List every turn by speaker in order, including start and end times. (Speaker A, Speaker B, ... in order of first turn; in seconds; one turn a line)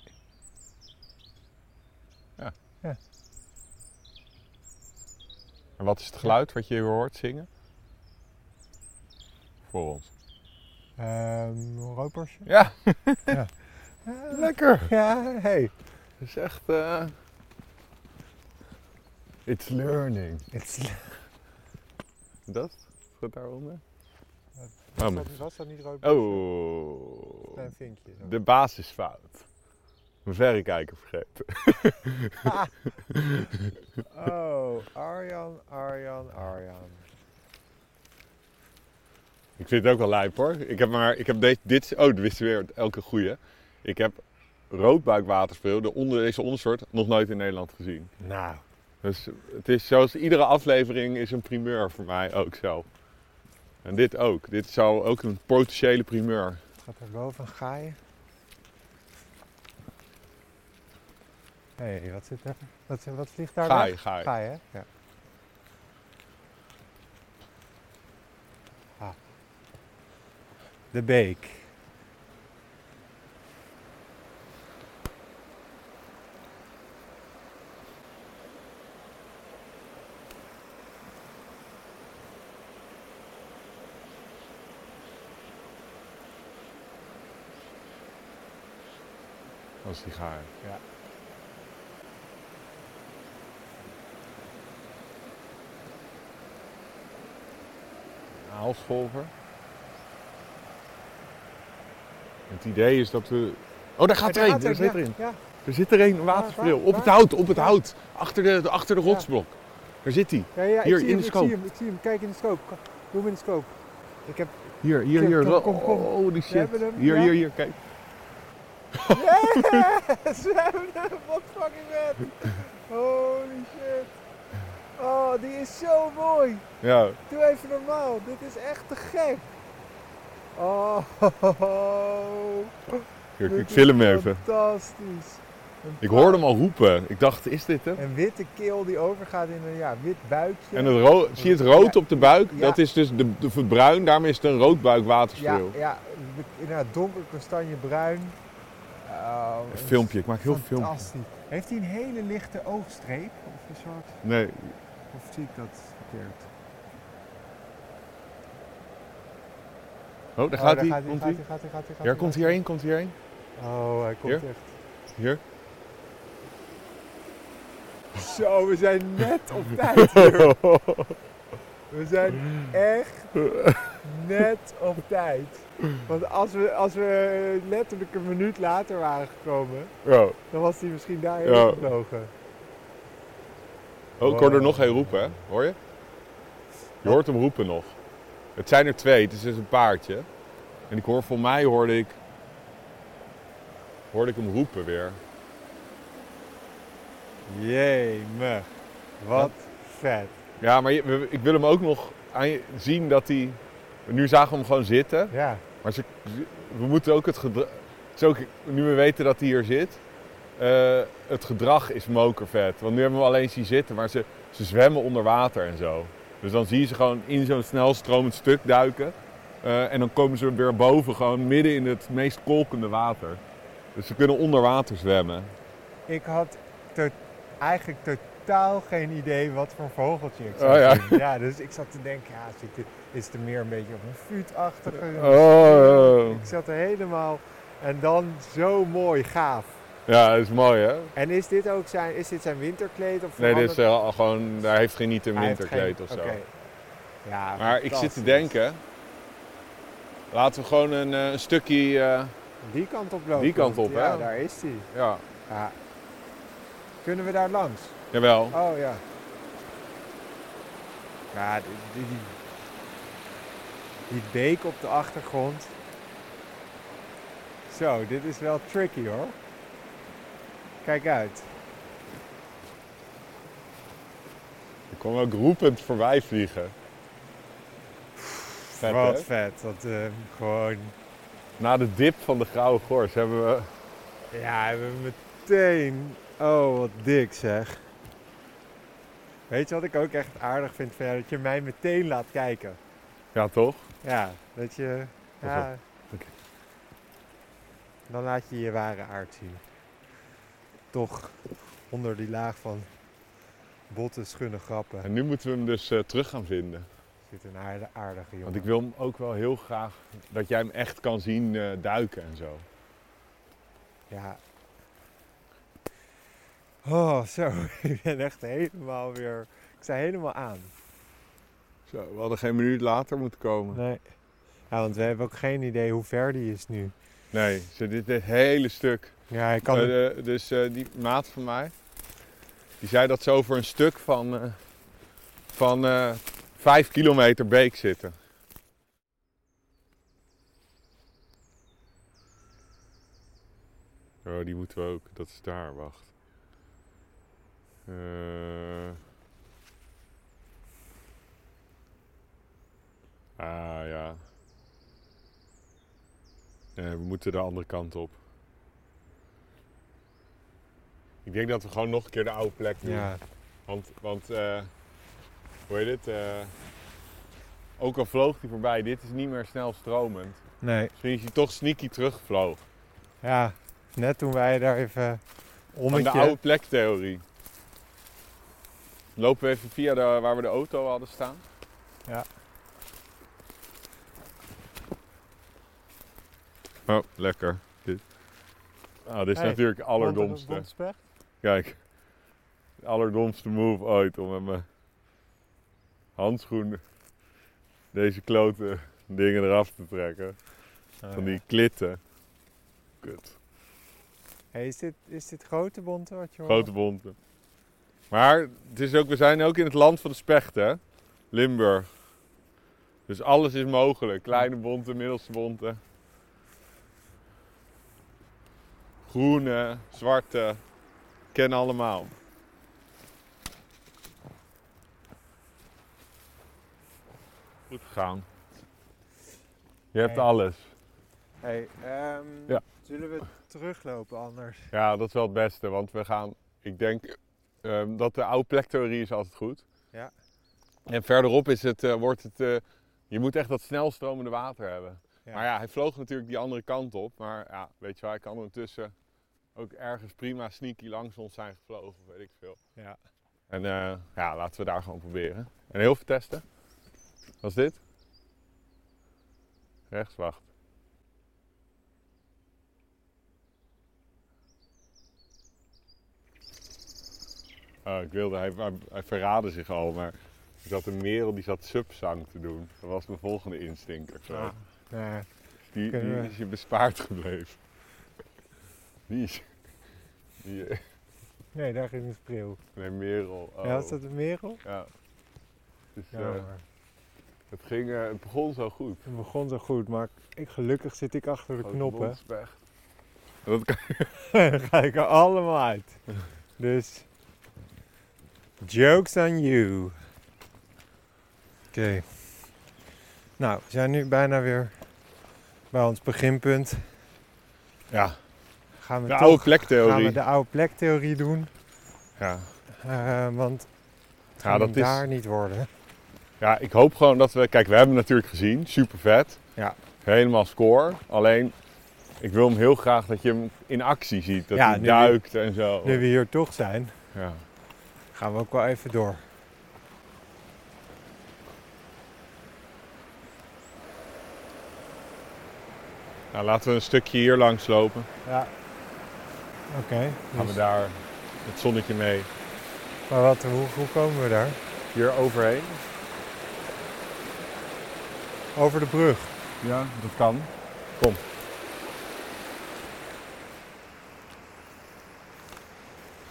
Speaker A: 5.8-7.5
Speaker A: 9.7-10.1
Speaker B: 11.0-12.5
Speaker A: 12.4-13.4
Speaker B: 14.0-15.7
Speaker A: 14.3-14.9
Speaker A: 16.2-17.1
Speaker A: 19.4-20.5
Speaker B: 20.5-21.1
Speaker A: 22.5-23.8
Speaker B: 24.6-26.4
Speaker A: 25.0-25.3
Speaker A: 26.0-27.6
Speaker B: 27.5-28.3
Speaker A: 28.2-29.5
Speaker A: 30.2-33.7
Speaker B: 32.4-32.7
Speaker B: 34.1-37.0
Speaker A: 39.6-48.1
Speaker B: 48.2-48.6
Speaker A: 49.0-52.9
Speaker A: 53.8-56.6
Speaker B: 56.8-58.0
Speaker B: 61.8-64.9
Speaker A: 63.6-64.3
Speaker B: 70.9-71.7
Speaker A: 89.8-90.5
Speaker A: 98.4-99.3
Speaker A: 102.5-111.5
Speaker B: 104.2-105.4
Speaker B: 106.3-107.8
Speaker B: 110.5-117.3
Speaker A: 114.8-117.8
Speaker A: 119.0-119.8
Speaker B: 119.1-124.1
Speaker B: 125.0-126.6
Speaker A: 126.8-127.2
Speaker B: 127.3-129.5
Speaker B: 130.5-136.4
Speaker A: 133.4-134.4
Speaker A: 136.0-138.0
Speaker B: 137.9-142.8
Speaker A: 140.7-145.7
Speaker B: 145.3-148.4
Speaker B: 149.0-154.2
Speaker A: 149.7-151.1
Speaker A: 154.2-154.8
Speaker B: 155.1-156.5
Speaker A: 160.4-161.4
Speaker B: 160.5-162.6
Speaker A: 162.0-163.1
Speaker B: 163.6-164.7
Speaker B: 168.1-170.6
Speaker A: 169.9-171.2
Speaker B: 171.9-173.3
Speaker A: 173.3-174.0
Speaker B: 174.0-179.9
Speaker A: 180.0-180.4
Speaker B: 180.5-182.3
Speaker A: 181.4-181.9
Speaker A: 184.2-185.8
Speaker B: 184.2-185.2
Speaker A: 187.0-187.9
Speaker A: 188.6-190.3
Speaker A: 190.9-192.2
Speaker A: 194.1-195.2
Speaker B: 197.5-198.7
Speaker B: 199.2-200.3
Speaker A: 200.6-205.3
Speaker B: 205.3-205.6
Speaker A: 205.8-210.0
Speaker A: 210.6-223.4
Speaker A: 223.9-225.5
Speaker B: 226.1-239.7
Speaker A: 230.5-231.2
Speaker A: 234.9-236.5
Speaker A: 240.1-241.1
Speaker B: 241.1-243.8
Speaker A: 243.4-246.4
Speaker B: 245.3-246.5
Speaker B: 247.2-248.5
Speaker A: 247.6-248.8
Speaker A: 250.3-252.3
Speaker B: 252.6-254.9
Speaker A: 253.3-254.3
Speaker A: 254.9-255.2
Speaker B: 255.5-255.8
Speaker B: 257.0-258.0
Speaker A: 258.1-258.6
Speaker B: 258.5-259.0
Speaker B: 261.3-262.4
Speaker B: 264.1-265.7
Speaker B: 267.7-269.4
Speaker B: 270.8-271.5
Speaker A: 274.9-276.7
Speaker B: 278.2-280.9
Speaker A: 278.8-279.3
Speaker A: 281.6-283.7
Speaker B: 284.3-287.8
Speaker B: 289.5-292.8
Speaker A: 293.3-293.9
Speaker B: 294.0-295.8
Speaker A: 295.4-296.3
Speaker B: 298.1-299.6
Speaker B: 300.9-302.9
Speaker B: 303.9-305.1
Speaker A: 305.0-306.9
Speaker B: 307.3-308.7
Speaker A: 308.4-312.6
Speaker B: 314.1-314.4
Speaker B: 316.8-320.7
Speaker A: 321.9-323.8
Speaker B: 323.7-324.0
Speaker B: 324.7-326.9
Speaker A: 327.3-329.1
Speaker B: 329.3-329.9
Speaker A: 329.7-331.7
Speaker A: 332.8-334.6
Speaker A: 335.5-338.1
Speaker A: 344.2-346.1
Speaker A: 347.9-349.0
Speaker A: 353.4-354.2
Speaker A: 356.8-358.2
Speaker A: 361.2-363.1
Speaker B: 362.8-363.2
Speaker A: 363.7-364.7
Speaker A: 365.7-366.5
Speaker A: 367.8-370.4
Speaker B: 370.6-370.9
Speaker A: 371.0-372.6
Speaker B: 373.2-375.2
Speaker B: 375.7-376.4
Speaker A: 375.9-377.2
Speaker A: 379.1-381.4
Speaker A: 386.9-388.0
Speaker A: 389.1-390.7
Speaker B: 389.3-391.0
Speaker A: 391.4-391.8
Speaker A: 392.8-394.6
Speaker A: 396.2-396.8
Speaker A: 397.9-400.4
Speaker B: 401.0-401.4
Speaker A: 401.1-402.0
Speaker A: 403.0-403.4
Speaker B: 404.5-406.7
Speaker A: 406.5-407.1
Speaker A: 408.1-410.8
Speaker A: 411.3-411.9
Speaker A: 413.1-415.8
Speaker A: 419.1-420.6
Speaker A: 421.3-422.1
Speaker A: 427.7-428.3
Speaker A: 429.9-430.7
Speaker B: 431.4-434.7
Speaker A: 434.7-439.6
Speaker A: 440.9-448.9
Speaker A: 449.5-452.6
Speaker A: 453.5-456.4
Speaker A: 457.4-457.8
Speaker A: 459.9-460.5
Speaker A: 467.8-474.5
Speaker B: 474.3-475.3
Speaker A: 475.7-477.6
Speaker B: 475.9-476.3
Speaker A: 479.1-479.5
Speaker A: 480.4-480.8
Speaker B: 481.5-482.6
Speaker A: 482.7-484.0
Speaker B: 483.6-484.6
Speaker A: 484.6-484.9
Speaker A: 485.9-486.5
Speaker B: 486.1-486.6
Speaker A: 487.5-489.0
Speaker B: 489.0-492.2
Speaker A: 491.6-492.6
Speaker A: 493.4-494.1
Speaker B: 494.1-495.9
Speaker B: 496.6-497.1
Speaker B: 498.6-499.9
Speaker B: 501.7-502.1
Speaker B: 503.4-504.7
Speaker B: 505.7-506.8
Speaker A: 507.9-508.2
Speaker B: 508.8-511.5
Speaker A: 509.1-510.2
Speaker A: 512.2-512.5
Speaker B: 512.7-513.7
Speaker B: 514.4-515.7
Speaker A: 514.4-515.0
Speaker A: 516.4-519.4
Speaker A: 520.0-521.5
Speaker A: 522.2-526.0
Speaker B: 524.5-525.2
Speaker B: 525.8-526.9
Speaker A: 527.1-527.4
Speaker B: 528.1-529.2
Speaker A: 536.3-538.1
Speaker B: 538.2-538.5
Speaker B: 539.7-540.6
Speaker A: 540.4-542.3
Speaker B: 543.1-544.6
Speaker A: 544.9-545.8
Speaker B: 548.5-549.3
Speaker A: 549.6-551.2